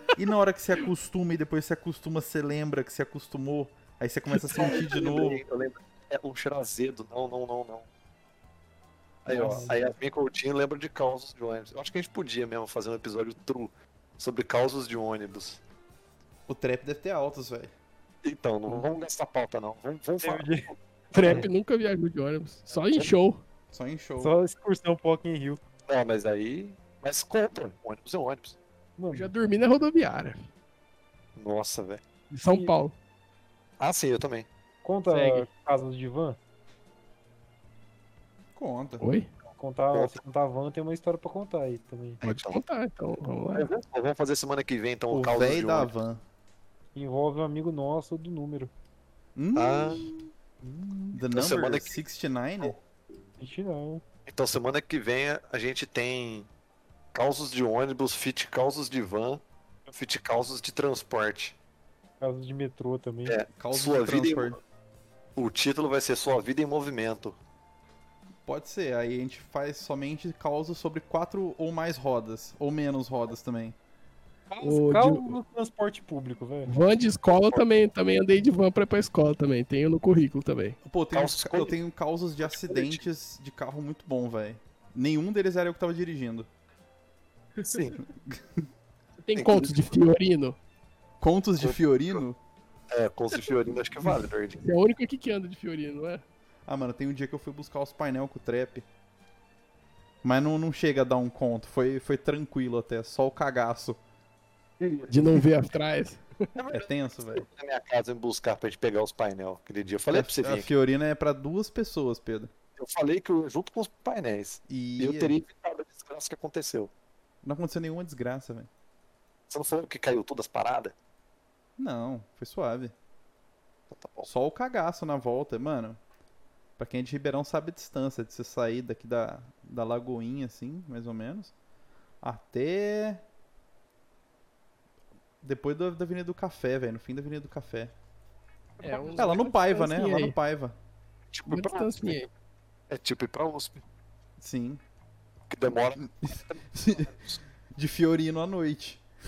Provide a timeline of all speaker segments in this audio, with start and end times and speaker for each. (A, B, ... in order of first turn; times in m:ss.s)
0:00.2-0:05.4 A
0:04.5-0:07.9 B
0:09.2-0:15.6 B
0:09.3-0:09.9 C
0:16.5-0:17.7 A
0:18.2-0:21.5 B
0:20.2-0:21.4 C
0:21.1-0:23.4 D
0:22.7-0:23.1 B
0:23.7-0:24.3 A
0:24.2-0:25.6 C
0:25.9-0:28.6 B
0:29.0-0:29.3 C
0:29.1-0:30.4 D
0:31.4-0:32.0 B
0:32.3-0:32.9 D
0:32.5-0:32.7 C
0:33.8-0:34.5 B
0:34.8-0:36.4 C
0:35.1-0:35.5 D
0:38.5-0:39.0 A
0:39.0-0:39.3 D
0:39.6-0:42.2 C
0:39.9-0:40.2 B
0:42.2-0:42.6 B
0:42.2-0:43.7 D
0:43.5-0:45.9 B
0:45.1-0:46.2 A
0:46.9-0:48.7 C
0:49.4-0:50.3 A
0:49.5-0:50.1 B
0:50.6-0:51.2 C
0:51.1-0:52.8 A
0:51.3-0:52.0 B
0:53.4-0:54.0 C
0:54.2-0:56.5 B
0:57.1-1:01.6 B
1:02.2-1:03.4 C
1:03.3-1:04.6 B
1:03.6-1:04.6 A
1:05.4-1:07.4 B
1:08.4-1:13.8 A
1:14.5-1:16.7 C
1:14.6-1:15.4 D
1:16.6-1:20.8 D
1:17.3-1:17.6 B
1:20.8-1:26.5 A
1:21.1-1:21.8 B
1:22.4-1:23.0 B
1:27.6-1:28.0 B
1:28.2-1:28.7 A
1:29.2-1:30.6 D
1:29.4-1:30.0 B
1:31.2-1:32.4 A
1:31.6-1:32.2 B
1:32.9-1:34.6 B
1:34.6-1:36.2 D
1:36.7-1:38.8 A
1:40.2-1:44.0 A
1:44.8-1:45.5 B
1:45.1-1:46.5 D
1:46.6-1:50.7 B
1:46.7-1:47.4 A
1:50.1-1:52.5 A
1:52.8-1:56.9 B
1:54.7-1:55.3 A
1:57.4-1:58.7 A
1:59.5-2:00.9 B
2:01.8-2:02.9 A
2:03.9-2:04.3 B
2:04.2-2:06.0 A
2:06.8-2:11.5 A
2:12.2-2:13.2 A
2:15.4-2:17.9 A
2:18.8-2:19.6 C
2:18.8-2:20.4 D
2:19.2-2:20.8 A
2:21.3-2:22.2 B
2:21.5-2:22.3 D
2:22.9-2:23.8 B
2:24.4-2:24.8 A
2:25.5-2:27.4 B
2:26.0-2:27.1 A
2:27.7-2:29.0 A